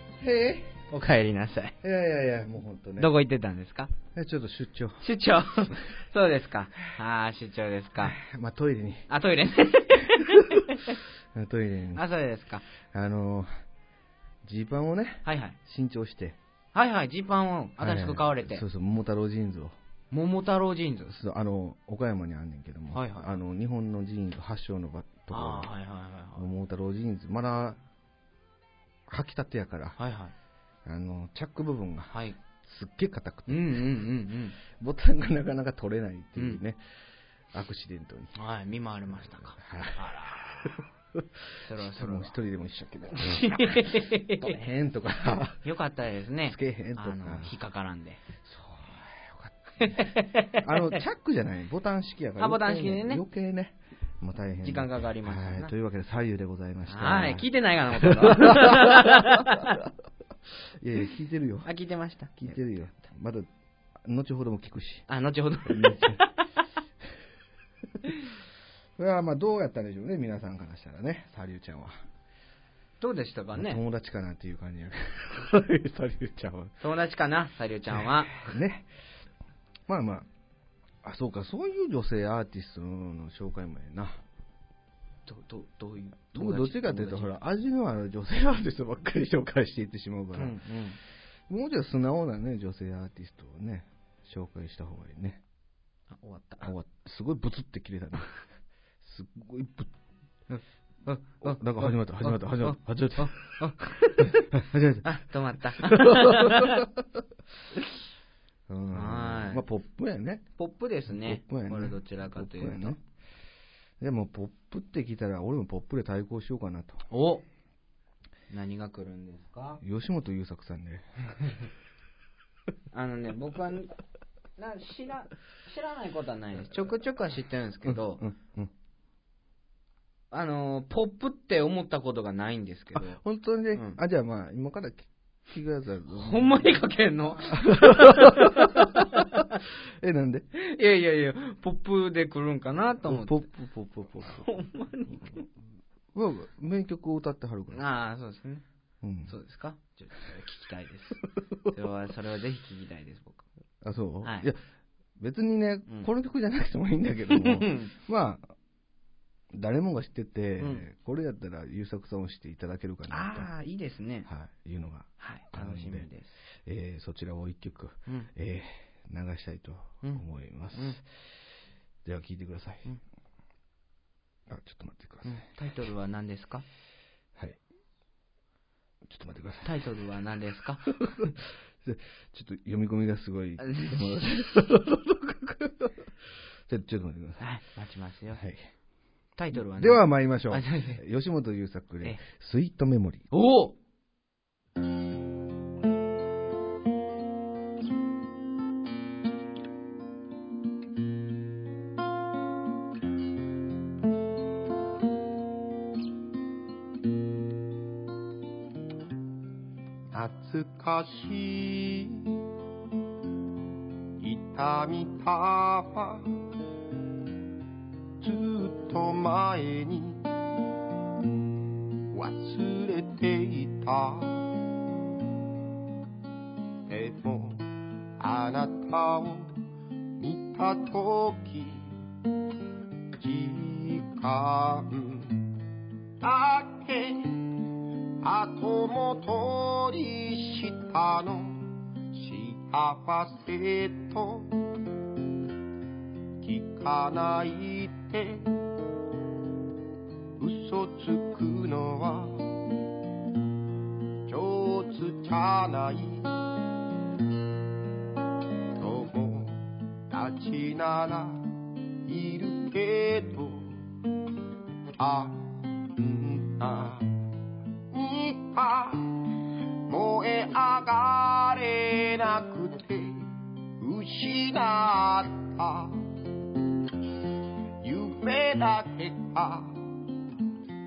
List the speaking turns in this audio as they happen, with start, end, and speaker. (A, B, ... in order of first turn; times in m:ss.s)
0:00.2-0:00.8 A
0:00.9-0:01.8 B
0:01.8-0:03.1 A
0:03.0-0:03.9 B
0:04.2-0:05.0 A
0:05.0-0:08.2 B
0:08.0-0:09.1 A
0:09.1-0:11.0 B
0:10.2-0:10.6 A
0:11.3-0:12.0 A
0:12.0-0:12.7 B
0:12.9-0:13.5 A
0:14.4-0:16.4 A
0:15.2-0:15.6 B
0:16.7-0:18.6 B
0:17.8-0:19.8 A
0:20.1-0:21.2 B
0:21.1-0:25.7 A
0:22.9-0:23.3 B
0:25.3-0:26.4 B
0:26.4-0:27.8 A
0:29.1-0:30.0 A
0:30.0-0:30.3 B
0:30.8-0:33.9 A
0:32.1-0:32.4 B
0:33.5-0:34.6 B
0:34.7-0:36.8 A
0:37.5-0:38.3 A
0:38.4-0:40.8 B
0:39.6-0:45.6 A
0:41.6-0:42.3 B
0:43.1-0:44.6 B
0:45.6-0:48.2 B
0:46.5-0:47.5 A
0:48.4-0:59.6 A
0:49.8-0:51.0 B
0:52.4-0:53.2 B
0:54.6-0:55.7 B
0:56.9-0:59.8 B
1:00.8-1:01.7 A
1:01.6-1:02.6 B
1:02.4-1:03.5 A
1:04.0-1:05.1 A
1:05.1-1:06.5 B
1:05.7-1:06.2 A
1:09.0-1:12.0 A
1:13.0-1:13.8 B
1:13.6-1:16.7 A
1:16.8-1:18.5 B
1:18.0-1:18.9 A
1:19.9-1:20.3 A
1:21.0-1:24.2 A
1:25.3-1:27.4 B
1:26.4-1:30.6 A
1:30.4-1:31.0 B
1:31.5-1:35.4 A
1:36.1-1:36.7 B
1:36.6-1:38.3 A
1:39.0-1:39.9 A
1:40.5-1:44.5 B
1:41.4-1:43.4 A
1:44.2-1:45.1 A
1:45.0-1:46.9 B
1:45.8-1:47.2 A
1:48.7-1:50.5 A
1:48.9-1:49.6 B
1:50.6-1:53.0 B
1:51.1-1:53.0 A
1:54.0-1:57.0 A
1:57.1-1:57.4 B
1:58.5-1:59.8 B
1:59.8-2:01.6 A
2:02.9-2:04.0 B
2:04.6-2:08.2 B
2:07.8-2:08.7 A
2:10.3-2:13.2 B
2:13.0-2:16.7 A
2:13.7-2:14.0 B
2:16.1-2:19.6 B
2:17.5-2:19.4 A
2:20.0-2:20.5 A
2:20.6-2:23.5 B
2:23.0-2:24.5 A
2:24.2-2:25.5 B
2:26.1-2:27.8 A
2:27.7-2:28.6 B
2:29.0-2:29.3 A
2:29.3-2:33.4 B
2:33.8-2:34.6 A
2:34.2-2:34.5 B
2:35.2-2:38.5 A
2:37.3-2:37.9 B
2:39.5-2:43.5 A
2:40.6-2:40.9 B
2:43.1-2:44.3 B
2:44.3-2:46.1 A
2:45.2-2:46.4 B
2:46.6-2:51.3 A
2:50.0-2:51.0 B
2:52.0-2:52.9 A
2:54.5-2:55.5 A
2:55.2-2:56.6 B
2:59.0-2:59.8 A
2:59.6-3:01.3 B
3:01.0-3:06.1 A
3:03.6-3:04.2 B
3:06.7-3:07.4 A
3:07.4-3:08.4 B
3:08.3-3:08.6 A
3:09.4-3:11.0 B
3:09.5-3:13.3 A
3:13.3-3:13.8 B
3:30.1-3:32.4 C
3:34.2-3:36.4 C
3:38.2-3:40.3 C
3:42.1-3:44.6 C
3:46.9-3:49.6 C
3:50.2-3:52.0 C
3:53.2-3:55.5 C
3:56.2-3:57.7 C
3:58.2-4:04.7 C
4:06.4-4:08.6 C
4:10.4-4:12.5 C
4:14.3-4:16.4 C
4:18.8-4:23.8 C
4:25.0-4:27.2 C
4:27.9-4:36.1 C
4:37.8-4:39.9 C